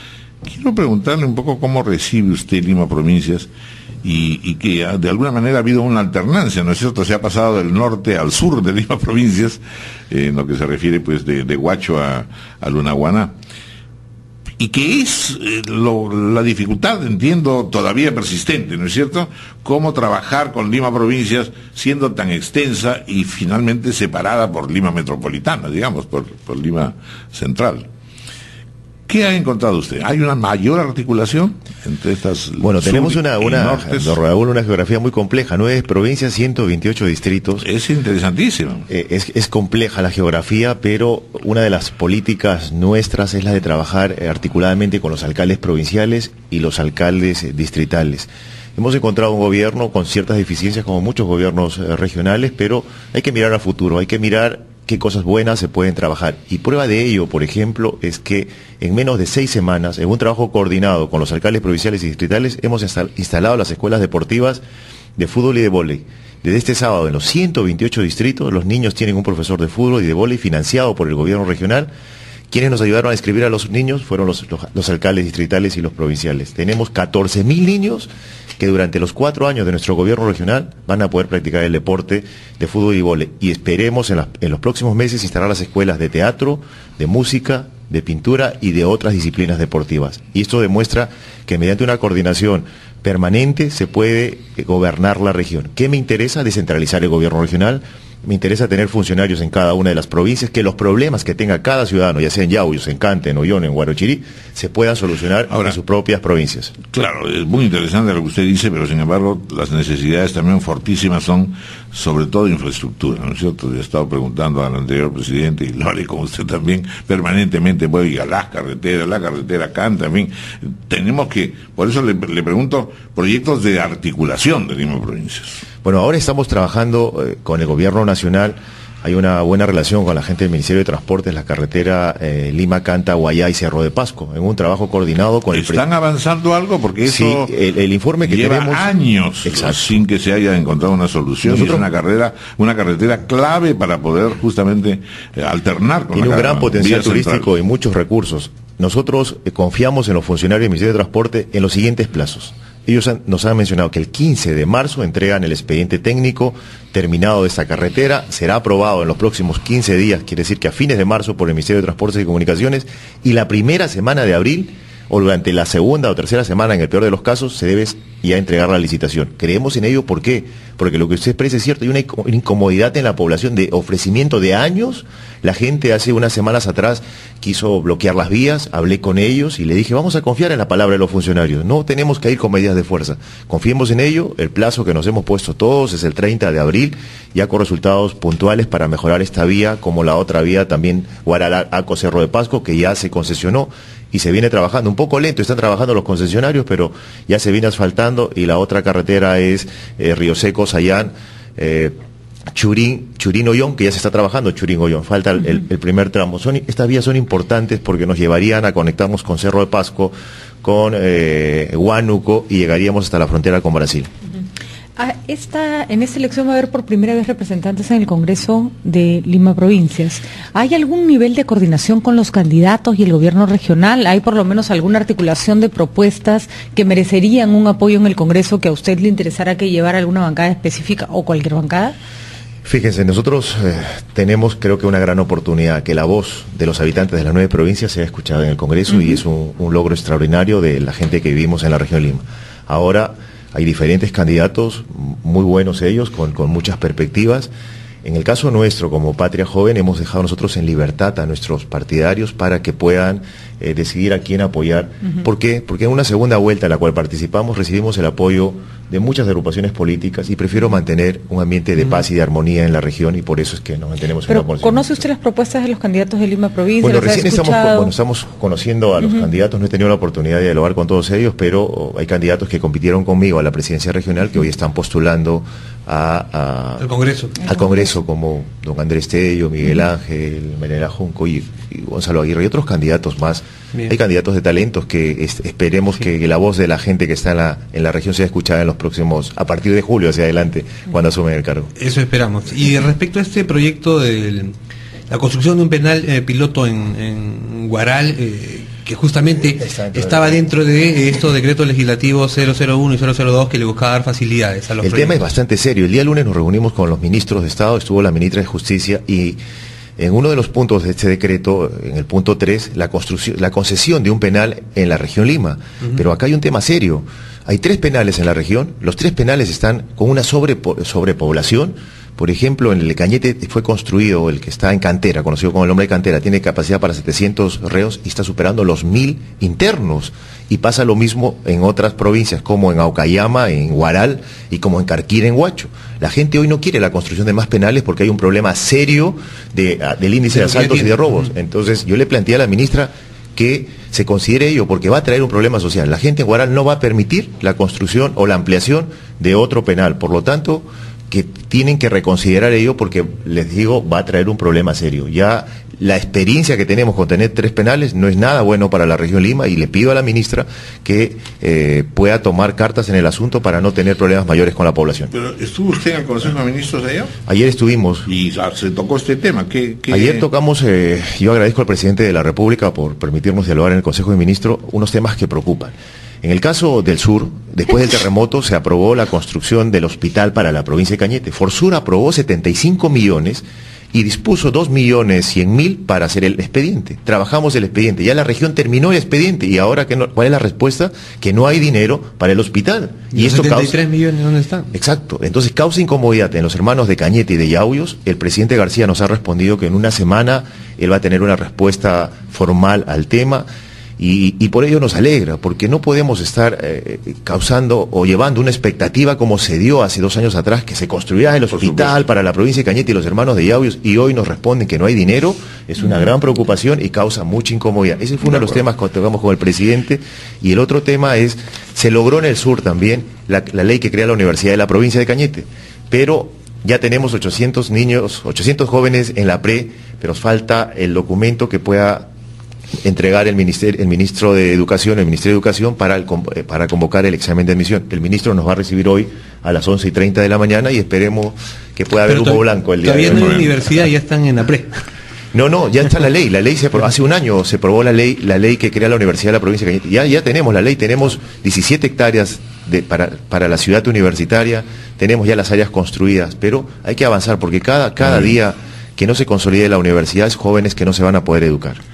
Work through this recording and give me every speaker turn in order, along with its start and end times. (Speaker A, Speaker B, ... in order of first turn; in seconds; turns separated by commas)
Speaker A: 0.4-3.5, Speaker A: 4.0-13.3, Speaker A: 14.6-27.9, Speaker A: 29.1-34.2, Speaker B: 32.6-37.7, Speaker A: 37.6-38.9, Speaker B: 38.9-64.6, Speaker B: 65.2-71.9, Speaker B: 72.5-106.7, Speaker A: 106.9-125.7, Speaker B: 125.8-135.9, Speaker A: 135.5-137.5, Speaker B: 137.0-138.9, Speaker A: 138.2-147.5, Speaker B: 139.4-140.0, Speaker B: 141.4-141.9, Speaker B: 146.1-201.9, Speaker B: 202.5-214.1, Speaker C: 215.0-232.0, Speaker B: 232.6-247.5, Speaker B: 248.0-265.0, Speaker C: 264.3-267.9, Speaker B: 266.8-276.9, Speaker C: 269.0-269.3, Speaker D: 276.8-277.4, Speaker C: 277.4-277.7, Speaker B: 277.4-291.7, Speaker D: 291.8-294.5, Speaker D: 295.1-305.3, Speaker B: 299.6-300.4, Speaker B: 304.8-309.4, Speaker B: 310.0-365.1, Speaker D: 340.3-341.2, Speaker A: 365.1-367.1, Speaker B: 367.3-368.1, Speaker A: 368.1-370.3, Speaker B: 369.9-393.8, Speaker D: 393.1-394.7, Speaker B: 394.7-403.5, Speaker B: 404.0-432.1, Speaker A: 411.5-411.9, Speaker B: 432.8-443.5, Speaker D: 442.1-444.7, Speaker A: 443.1-443.4, Speaker B: 445.3-461.8